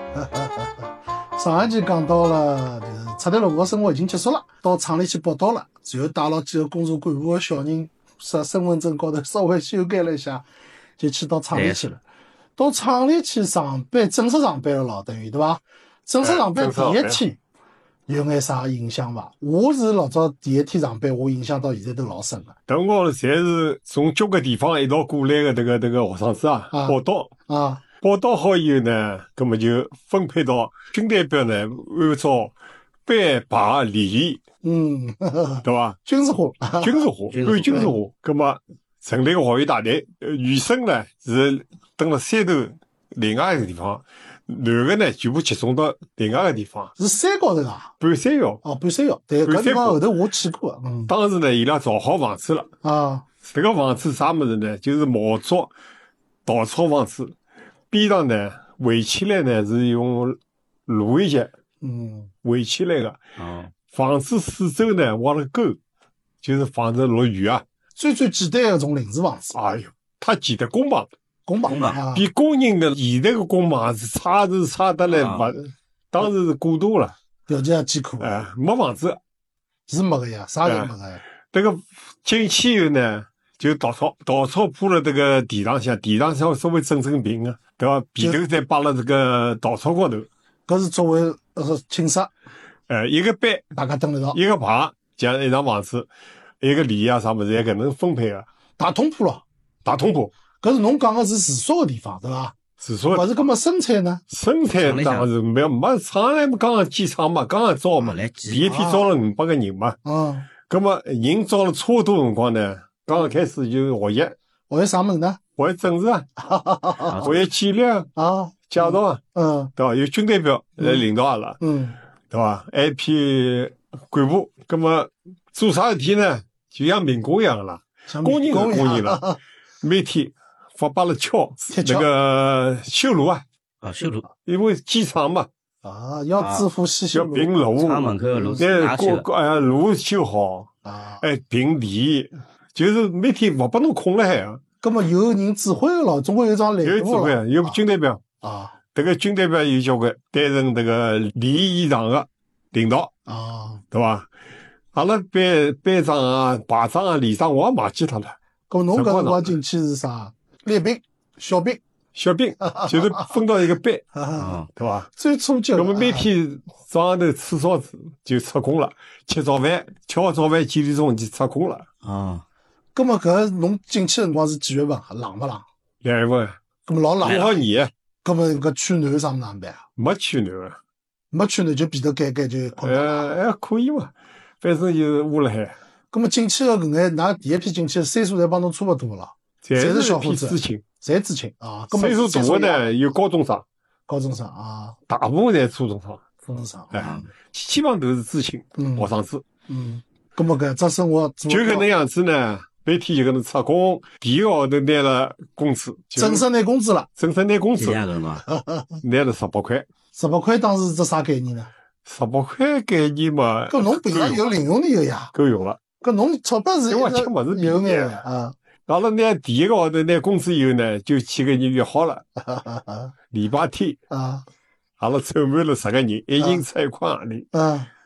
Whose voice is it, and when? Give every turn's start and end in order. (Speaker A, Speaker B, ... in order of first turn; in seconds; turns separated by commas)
Speaker A: 0.2-0.7, Speaker A: 1.4-10.4, Speaker A: 11.0-12.0, Speaker B: 11.5-11.9, Speaker A: 12.6-17.4, Speaker C: 16.2-17.2, Speaker A: 18.1-22.5, Speaker C: 22.7-27.3, Speaker A: 26.7-27.8, Speaker C: 28.0-32.5, Speaker C: 33.0-34.4, Speaker A: 34.6-37.0, Speaker C: 35.6-36.0, Speaker C: 36.8-46.9, Speaker B: 37.3-37.9, Speaker A: 47.0-47.9, Speaker C: 48.0-48.6, Speaker A: 48.6-51.1, Speaker C: 49.4-50.0, Speaker C: 51.1-52.7, Speaker A: 52.8-53.2, Speaker C: 53.4-55.7, Speaker C: 56.5-57.3, Speaker C: 57.9-61.5, Speaker A: 61.8-62.3, Speaker C: 62.4-63.2, Speaker B: 63.4-63.7, Speaker C: 63.9-65.8, Speaker C: 66.4-67.6, Speaker A: 68.0-69.6, Speaker C: 69.5-71.1, Speaker A: 71.5-72.3, Speaker B: 71.7-72.0, Speaker C: 72.1-77.1, Speaker B: 75.1-75.5, Speaker A: 77.5-78.4, Speaker C: 78.2-79.2, Speaker A: 79.9-81.2, Speaker C: 80.6-80.9, Speaker C: 81.5-90.3, Speaker A: 90.7-92.3, Speaker C: 92.9-93.7, Speaker A: 93.7-94.4, Speaker C: 94.3-96.1, Speaker C: 96.6-98.5, Speaker A: 98.8-99.4, Speaker C: 99.8-100.3, Speaker A: 100.6-102.5, Speaker C: 102.8-103.4, Speaker A: 103.1-104.2, Speaker C: 104.3-110.0, Speaker B: 104.8-105.3, Speaker B: 108.0-108.7, Speaker A: 108.6-109.1, Speaker A: 110.0-110.5, Speaker C: 110.6-114.3, Speaker A: 114.7-115.4, Speaker C: 115.6-116.3, Speaker A: 116.4-117.3, Speaker B: 117.1-117.3, Speaker C: 117.2-118.1, Speaker A: 118.2-119.7, Speaker C: 118.7-119.2, Speaker C: 119.8-121.6, Speaker A: 121.6-122.0, Speaker C: 122.3-129.2, Speaker A: 128.1-129.4, Speaker C: 129.8-133.4, Speaker A: 131.7-132.1, Speaker B: 133.8-134.3, Speaker C: 134.4-135.5, Speaker A: 135.8-137.5, Speaker B: 136.4-136.7, Speaker C: 137.1-140.7, Speaker B: 137.8-139.2, Speaker A: 140.8-141.2, Speaker C: 141.2-144.6, Speaker A: 144.8-147.8, Speaker C: 146.8-148.2, Speaker A: 148.4-148.8, Speaker C: 148.9-153.1, Speaker A: 153.3-153.8, Speaker C: 153.9-154.3, Speaker C: 154.9-158.4, Speaker A: 158.7-161.8, Speaker C: 158.9-159.6, Speaker C: 162.2-164.1, Speaker A: 162.6-163.3, Speaker A: 164.1-164.6, Speaker B: 164.4-164.7, Speaker C: 164.7-165.1, Speaker A: 165.2-166.3, Speaker C: 165.8-171.9, Speaker B: 172.0-172.4, Speaker A: 172.9-175.6, Speaker C: 176.0-176.6, Speaker A: 176.9-177.7, Speaker B: 177.2-177.5, Speaker C: 177.2-177.9, Speaker A: 178.2-179.8, Speaker C: 180.0-180.8, Speaker A: 181.3-183.4, Speaker C: 182.8-185.8, Speaker A: 186.1-192.9, Speaker C: 189.6-190.8, Speaker C: 191.9-193.7, Speaker A: 194.1-195.0, Speaker C: 195.1-196.2, Speaker A: 196.5-197.2, Speaker C: 196.9-199.4, Speaker B: 197.0-197.3, Speaker A: 198.8-199.1, Speaker A: 199.7-201.9, Speaker C: 201.5-206.5, Speaker A: 206.2-207.1, Speaker C: 207.2-208.1, Speaker B: 207.8-208.4, Speaker A: 208.5-208.9, Speaker C: 209.0-209.9, Speaker A: 210.1-211.7, Speaker C: 212.1-214.5, Speaker A: 213.7-215.3, Speaker C: 215.3-215.8, Speaker A: 216.0-218.6, Speaker C: 216.9-218.2, Speaker C: 218.9-222.2, Speaker A: 222.4-223.1, Speaker C: 223.3-224.0, Speaker A: 224.1-224.4, Speaker C: 225.0-227.5, Speaker A: 227.5-227.9